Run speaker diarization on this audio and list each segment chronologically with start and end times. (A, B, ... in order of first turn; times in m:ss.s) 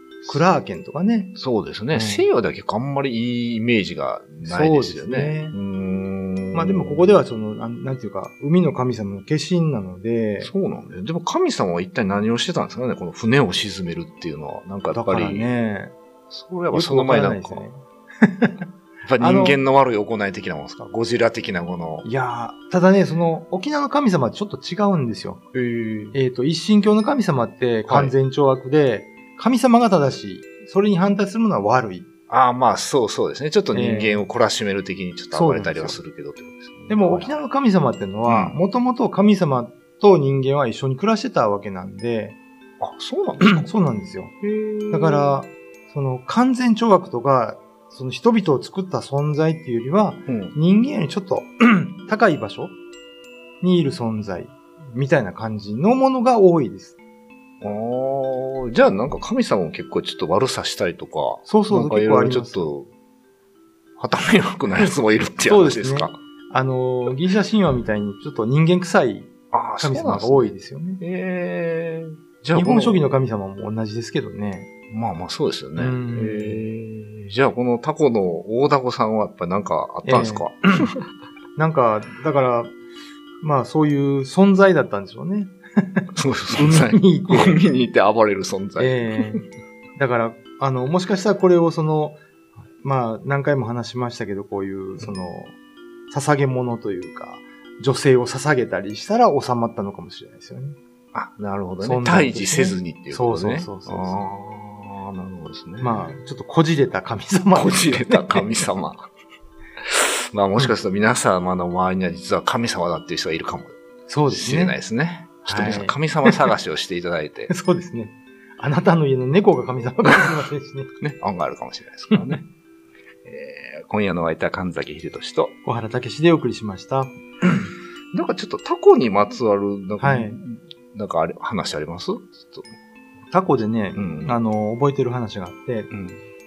0:00.2-0:01.3 A
0:01.3-0:07.2 B
0:01.9-0:02.2 A
0:04.4-0:05.6 A
0:06.5-0:10.5 A
0:10.4-0:15.5 B
0:14.9-0:15.9 A
0:16.3-0:17.6 B
0:16.7-0:18.6 A
0:19.1-0:22.0 B
0:19.2-0:19.6 A
0:22.0-0:25.4 A
0:25.5-0:26.2 B
0:26.1-0:32.1 A
0:27.8-0:28.1 B
0:32.3-0:37.4 B
0:33.7-0:34.3 A
0:35.3-0:36.0 A
0:36.9-0:42.4 A
0:38.3-0:38.6 B
0:42.8-0:43.7 B
0:43.4-0:44.3 A
0:44.4-0:45.4 B
0:44.9-0:52.7 A
0:50.3-0:50.5 B
0:53.6-0:57.0 A
0:57.6-1:02.9 B
1:01.4-1:02.7 A
1:04.0-1:06.2 B
1:05.4-1:11.0 A
1:09.5-1:13.1 B
1:12.5-1:14.7 A
1:14.9-1:21.0 B
1:15.8-1:16.6 A
1:20.0-1:20.9 A
1:21.6-1:22.7 A
1:23.4-1:27.6 A
1:26.1-1:29.4 B
1:28.8-1:29.4 A
1:30.0-1:32.2 A
1:32.8-1:35.5 A
1:36.1-1:40.8 A
1:41.1-1:46.2 B
1:41.8-1:44.3 A
1:45.8-1:48.5 A
1:47.5-1:49.1 B
1:49.8-1:53.7 B
1:54.1-1:54.8 A
1:54.3-1:57.5 B
1:55.4-1:56.5 A
1:57.5-2:00.9 A
2:01.0-2:02.4 B
2:02.1-2:02.4 A
2:03.2-2:05.5 B
2:05.6-2:07.2 A
2:08.1-2:12.7 B
2:10.0-2:10.4 A
2:13.3-2:15.9 A
2:13.9-2:14.4 B
2:15.9-2:16.2 B